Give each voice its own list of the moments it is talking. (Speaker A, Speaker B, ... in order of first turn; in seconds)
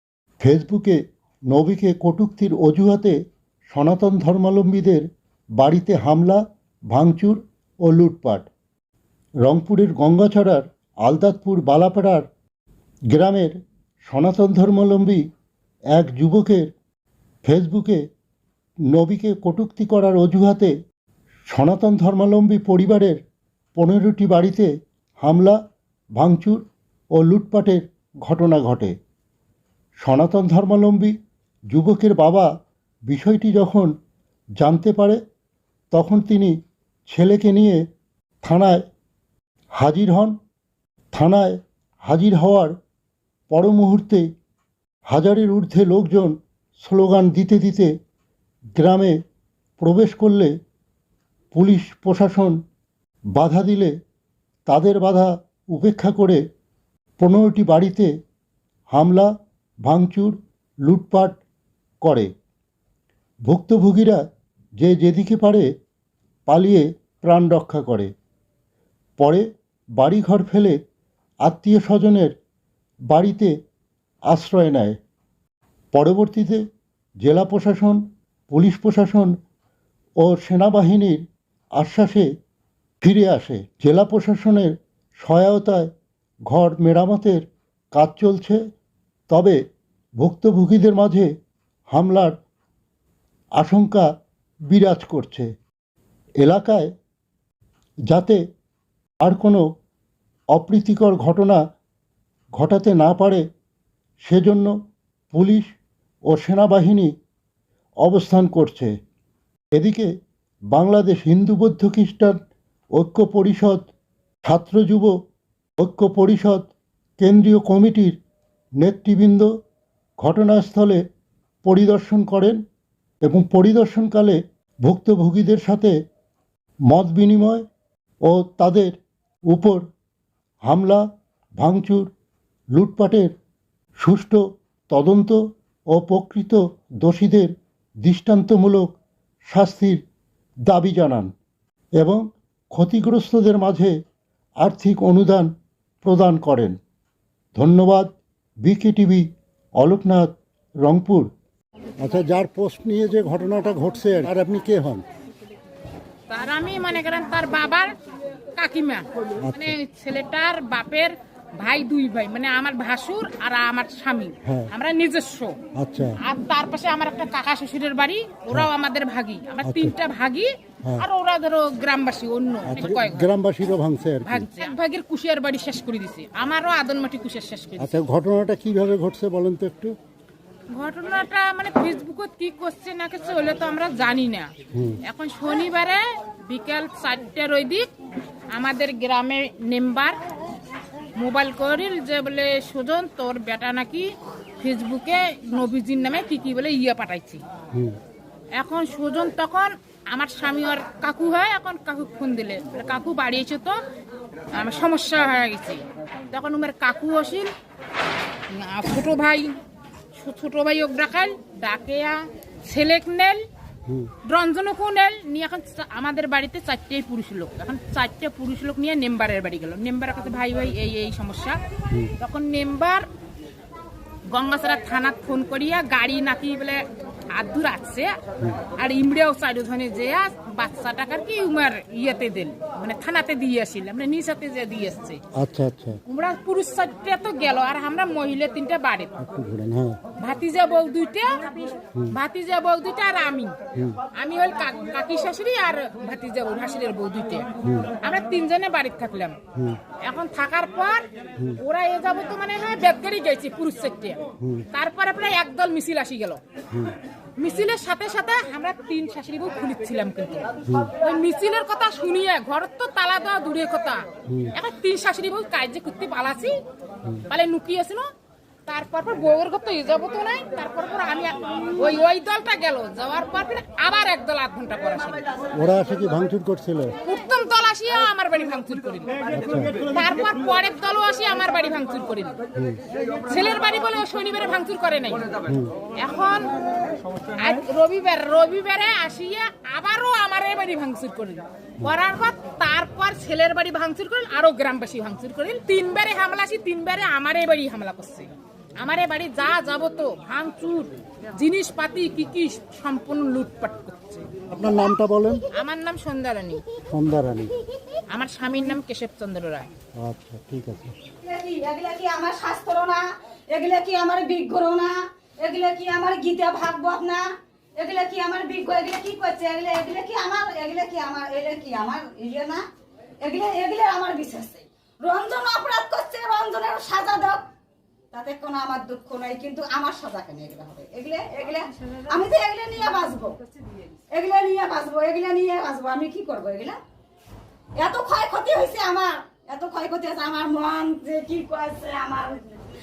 Speaker A: 0.4-1.0, 1.5-3.1, 3.7-5.0, 5.6-6.4, 6.9-8.5, 9.4-12.2, 13.1-15.2, 15.9-16.7, 17.4-18.0, 18.9-20.7, 21.5-23.2, 23.7-24.7, 25.2-25.6, 26.1-26.6, 27.1-28.9, 30.0-31.1, 31.7-32.5, 33.1-33.9, 34.6-35.2, 35.9-36.5, 37.1-37.8, 38.4-38.8, 39.8-40.3, 41.1-42.7, 43.5-44.2, 45.1-47.9, 48.8-49.1, 49.8-50.5, 51.5-52.6, 53.3-53.9, 54.6-56.4, 57.2-58.1, 58.9-59.3, 59.8-61.4, 62.0-62.3, 63.5-64.2, 64.8-65.7, 66.5-68.1, 69.2-69.4, 70.0-70.8, 71.4-72.3, 73.1-73.5, 74.3-75.0, 75.9-76.6, 77.2-79.3, 80.2-81.2, 81.8-82.3, 83.0-85.9, 86.5-88.6, 89.3-89.6, 90.2-91.3, 91.9-92.3, 93.6-94.1, 94.7-95.5, 96.4-96.9, 98.1-98.4, 99.2-99.6, 100.5-101.6, 102.5-103.4, 104.2-104.7, 105.3-105.7, 106.3-107.1, 108.0-108.9, 109.7-110.1, 110.7-112.4, 112.9-113.9, 114.4-115.1, 115.8-118.2, 118.8-119.5, 120.2-121.0, 121.6-122.6, 123.2-125.9, 126.9-127.6, 128.2-129.0, 129.5-129.8, 130.7-131.0, 131.6-132.1, 132.7-133.3, 134.0-135.4, 135.9-139.0, 139.5-140.0, 140.7-141.3, 142.0-143.9, 144.6-146.8, 147.6-149.3, 149.8-150.3, 150.8-151.3, 152.0-155.0, 159.4-159.8, 164.4-164.7, 165.8-166.2, 169.6-169.9, 172.6-174.5, 177.8-179.9, 184.7-185.0, 235.3-236.0, 239.2-240.0, 247.6-247.9, 254.4-254.7, 256.7-256.9, 260.6-260.9, 264.3-264.5, 275.5-276.9, 279.3-279.8, 282.5-282.8, 285.5-285.7, 304.5-305.4, 306.9-307.5, 310.0-310.9
Speaker B: 156.3-157.9, 158.6-165.6, 166.2-173.3, 174.2-178.0, 180.7-184.5, 185.0-187.9, 188.5-190.2, 191.2-197.4, 198.6-203.8, 204.5-207.5, 208.5-209.5, 210.1-213.4, 214.2-221.6, 222.2-223.1, 224.3-228.1, 228.8-235.2, 236.1-239.1, 240.2-243.6, 244.1-247.5, 248.0-249.4, 250.0-256.4, 257.4-266.6, 267.3-268.1, 268.6-275.2, 277.0-279.1, 279.8-282.4, 283.3-285.3, 285.9-286.6, 287.3-304.3, 305.5-306.6, 308.1-309.7
Speaker C: 311.2-317.2, 317.8-322.6, 323.2-327.4, 328.1-333.4, 334.1-336.8, 337.8-342.4